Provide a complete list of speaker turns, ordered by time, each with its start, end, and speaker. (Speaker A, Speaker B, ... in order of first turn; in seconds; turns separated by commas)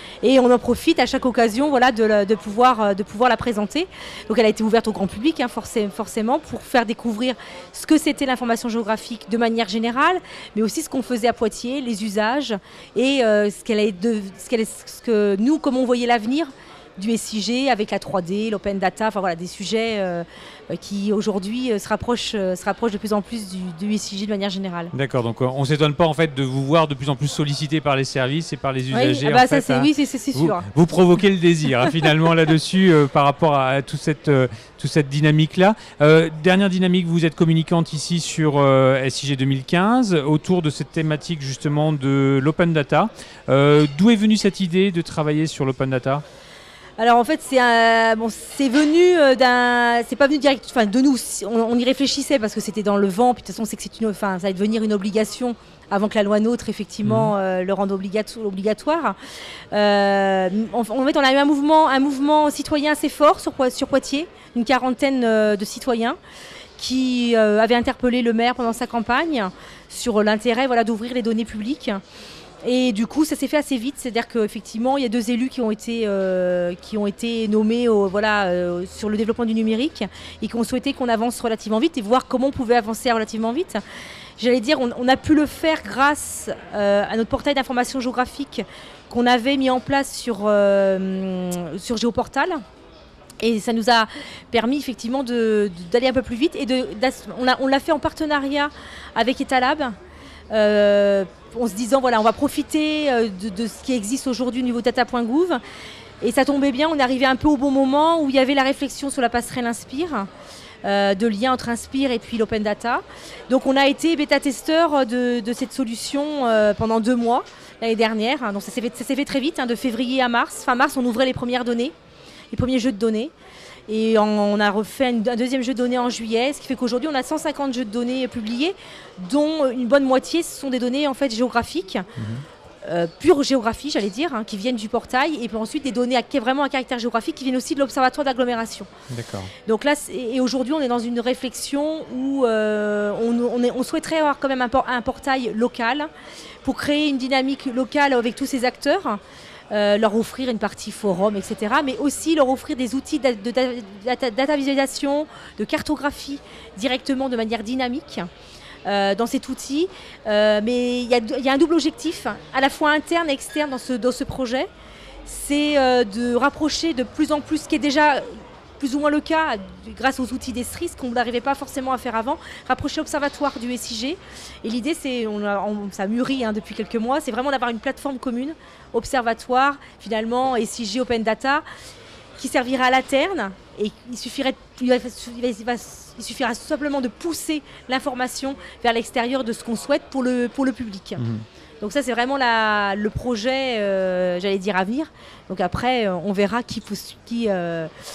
Speaker A: 0.2-24.9, Speaker B: 24.9-46.2, Speaker A: 28.9-30.6, Speaker A: 47.0-59.1, Speaker B: 57.0-57.3, Speaker A: 59.7-66.2, Speaker A: 66.8-72.0, Speaker A: 72.6-83.8, Speaker A: 84.4-92.6, Speaker A: 93.4-99.9, Speaker A: 100.5-105.6, Speaker A: 106.2-110.3, Speaker A: 110.8-121.9, Speaker A: 122.5-123.3, Speaker A: 123.9-132.1, Speaker B: 132.2-132.4, Speaker A: 132.8-138.9, Speaker B: 139.1-139.5, Speaker A: 139.7-146.1, Speaker A: 146.6-158.3, Speaker A: 158.8-164.7, Speaker A: 165.2-181.6, Speaker A: 182.4-191.2, Speaker B: 191.2-191.4, Speaker A: 191.8-197.9